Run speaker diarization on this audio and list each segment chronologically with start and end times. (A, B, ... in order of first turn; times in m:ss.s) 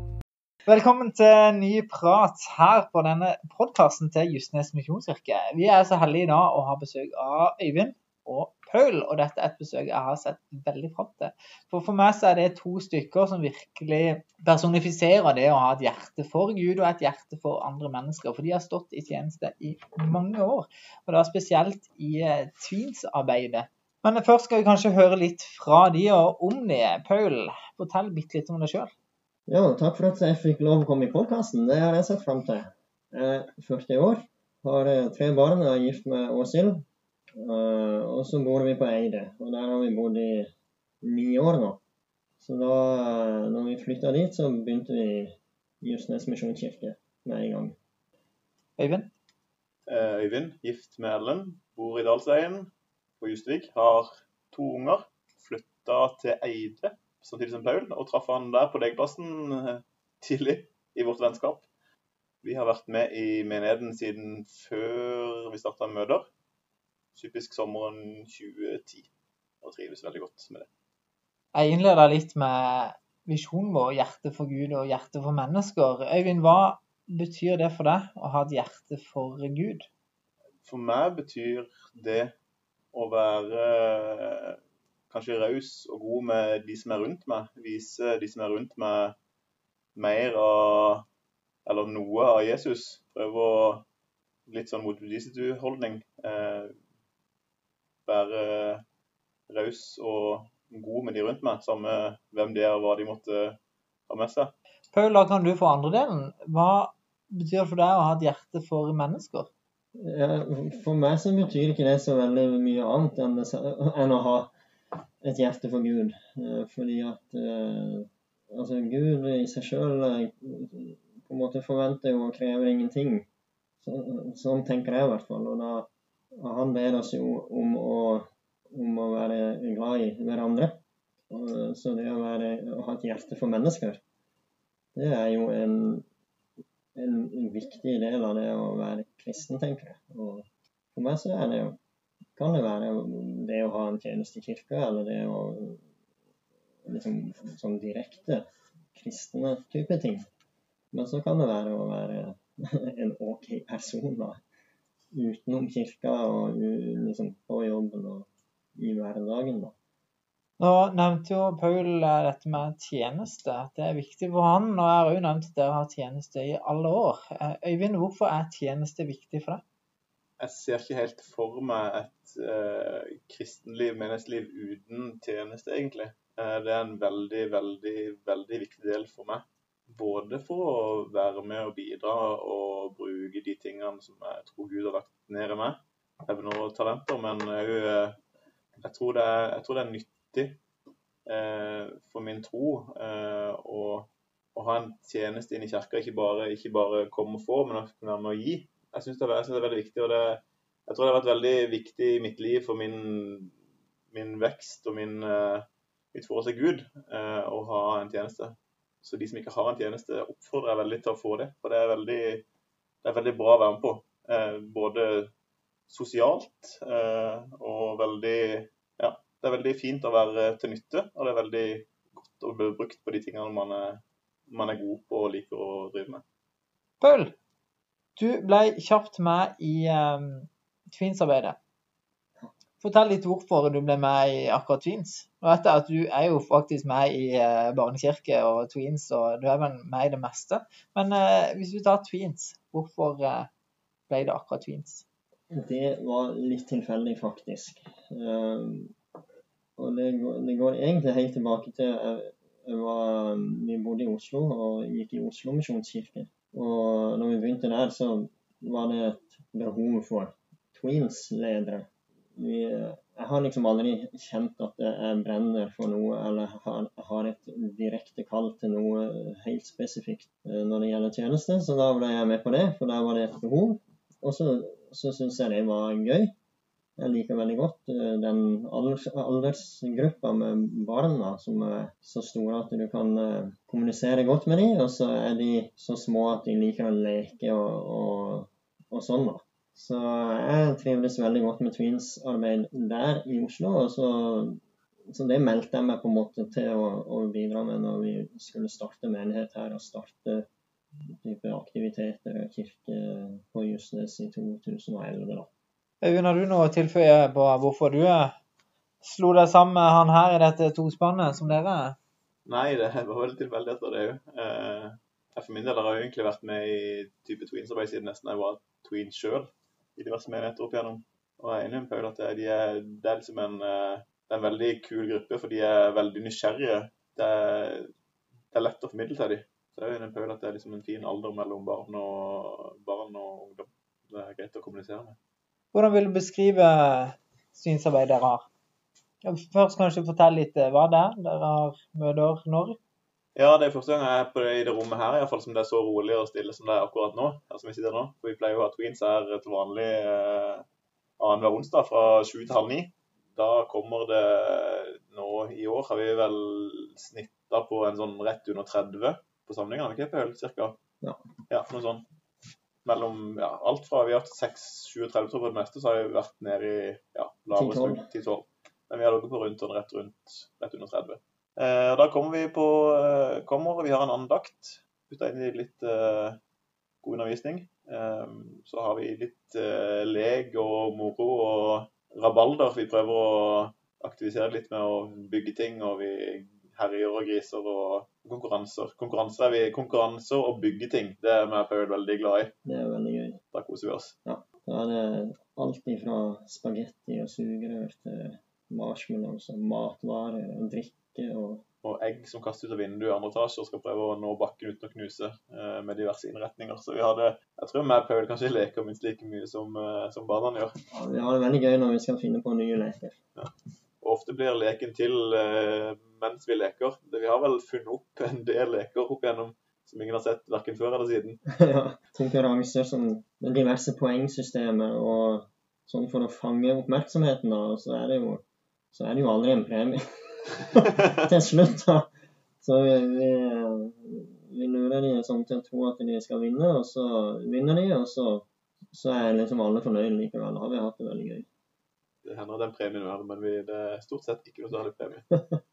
0:00.7-0:28.9 A
0:29.5-0:36.8 B
0:37.4-0:41.8 B
0:42.4-0:47.8 B
0:48.8-0:49.1 A
0:49.9-1:01.7 C
1:02.4-1:06.3 C
1:07.1-1:09.1 C
1:09.6-1:10.7 C
1:11.5-1:19.9 A
1:20.6-1:22.3 C
1:22.9-1:24.6 C
1:25.1-1:29.1 C
1:29.9-1:31.0 C
1:31.6-1:33.8 C
1:34.5-1:36.7 C
1:38.0-1:38.8 C
1:39.5-1:43.6 C
1:44.1-1:44.5 C
1:44.9-1:49.5 A
1:50.0-1:54.5 B
1:55.2-2:03.3 B
2:03.8-2:14.0 B
2:14.9-2:16.0 B
2:16.9-2:21.8 B
2:22.4-2:25.8 B
2:26.8-2:30.2 B
2:30.9-2:34.4 B
2:35.1-2:39.7 B
2:40.6-2:49.6 A
2:50.4-3:08.2 C
3:08.8-3:10.6 C
3:11.3-3:23.5 C
3:24.1-3:32.4 C
3:33.0-3:35.3 C
3:35.9-3:46.2 C
3:47.0-3:47.3 A
3:48.2-3:51.6 A
3:52.8-4:03.5 A
4:04.1-4:05.0 A
4:05.5-4:08.9 B
4:09.8-4:36.3 B
4:37.0-5:00.5 B
5:01.1-5:05.5 B
5:06.0-5:08.3 A
5:09.0-5:12.0 A
5:12.4-5:27.9 C
5:28.5-5:35.2 C
5:35.7-5:38.5 A
5:39.2-5:42.8 A
5:43.4-5:50.6 C
5:51.2-6:00.8 C
6:01.5-6:02.0 C
6:02.8-6:16.4 C
6:07.5-6:08.0 B
6:17.0-6:32.5 C
6:32.6-6:33.4 B
6:33.5-6:34.1 C
6:34.2-6:41.6 B
6:41.8-6:50.8 C
6:50.9-6:53.2 B
6:53.4-7:01.4 C
7:01.5-7:12.1 B
7:12.6-7:21.5 B
7:22.2-7:25.3 C